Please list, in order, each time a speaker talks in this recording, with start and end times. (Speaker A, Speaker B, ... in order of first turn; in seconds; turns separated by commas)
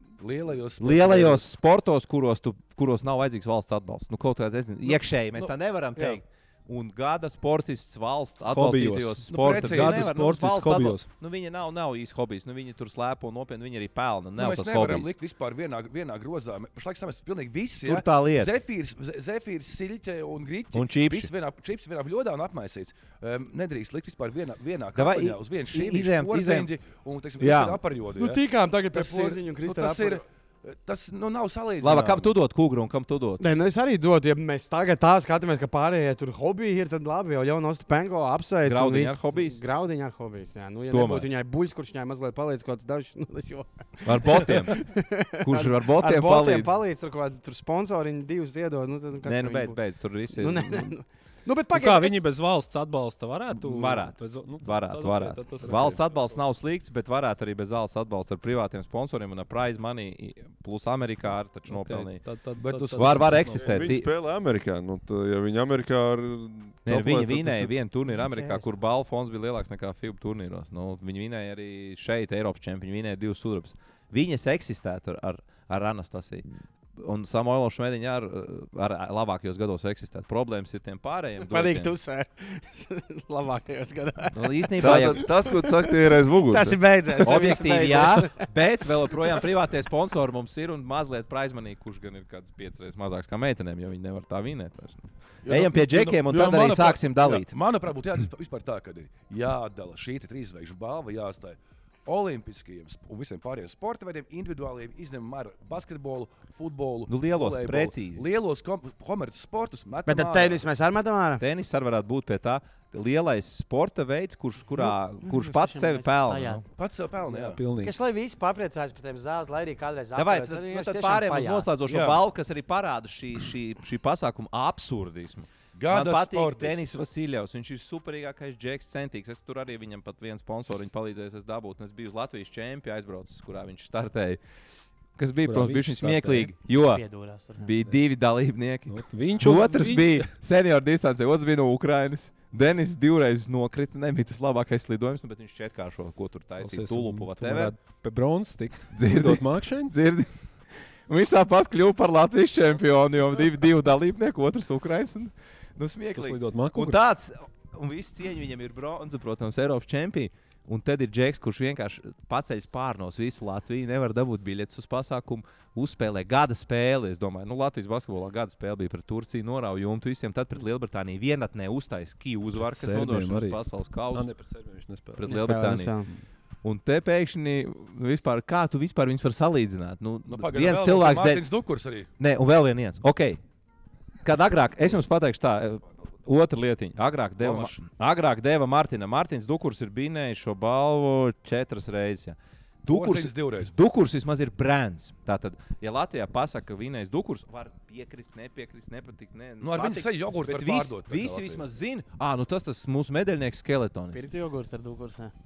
Speaker A: 0.2-1.4, Speaker B: 0.8-15.1, Speaker C: 8.5-11.1, Speaker A: 9.3-10.1, Speaker A: 14.4-28.4, Speaker B: 17.8-18.5, Speaker B: 20.7-21.3, Speaker B: 24.9-26.7, Speaker B: 27.4-27.8, Speaker D: 28.1-30.2, Speaker A: 28.9-32.3, Speaker B: 31.8-33.5, Speaker D: 33.4-49.8, Speaker B: 38.6-39.6, Speaker B: 40.9-41.3, Speaker B: 44.0-44.8, Speaker B: 45.4-46.8, Speaker B: 49.2-50.9, Speaker D: 50.3-52.2, Speaker C: 51.7-56.4, Speaker B: 53.5-62.2, Speaker C: 61.7-63.9, Speaker A: 62.6-63.4, Speaker B: 62.9-64.1, Speaker E: 63.5-67.7, Speaker B: 66.8-81.9, Speaker D: 68.1-68.7, Speaker D: 81.5-85.9, Speaker B: 84.3-85.3, Speaker E: 84.8-86.8, Speaker D: 86.5-88.5, Speaker B: 87.2-97.5, Speaker A: 95.4-110.6, Speaker B: 107.1-108.2, Speaker D: 110.1-111.4, Speaker B: 111.4-116.6, Speaker D: 114.7-116.6, Speaker A: 116.8-117.6, Speaker C: 117.3-118.0, Speaker D: 117.8-121.7, Speaker B: 120.2-134.4, Speaker A: 121.9-122.2, Speaker A: 125.7-126.9, Speaker B: 135.2-137.0, Speaker C: 135.4-136.5, Speaker D: 136.8-137.7, Speaker B: 137.6-147.7, Speaker C: 138.9-140.3, Speaker C: 146.6-149.9, Speaker B: 148.9-150.3, Speaker B: 151.1-174.3, Speaker C: 156.1-157.0, Speaker C: 172.6-173.6, Speaker C: 174.1-175.2, Speaker B: 175.2-176.0, Speaker D: 175.2-176.1, Speaker B: 176.6-181.5, Speaker A: 180.3-182.1, Speaker B: 182.2-183.4, Speaker B: 184.2-204.2, Speaker A: 187.4-187.8, Speaker A: 192.9-193.7, Speaker A: 199.6-201.7, Speaker D: 204.1-205.3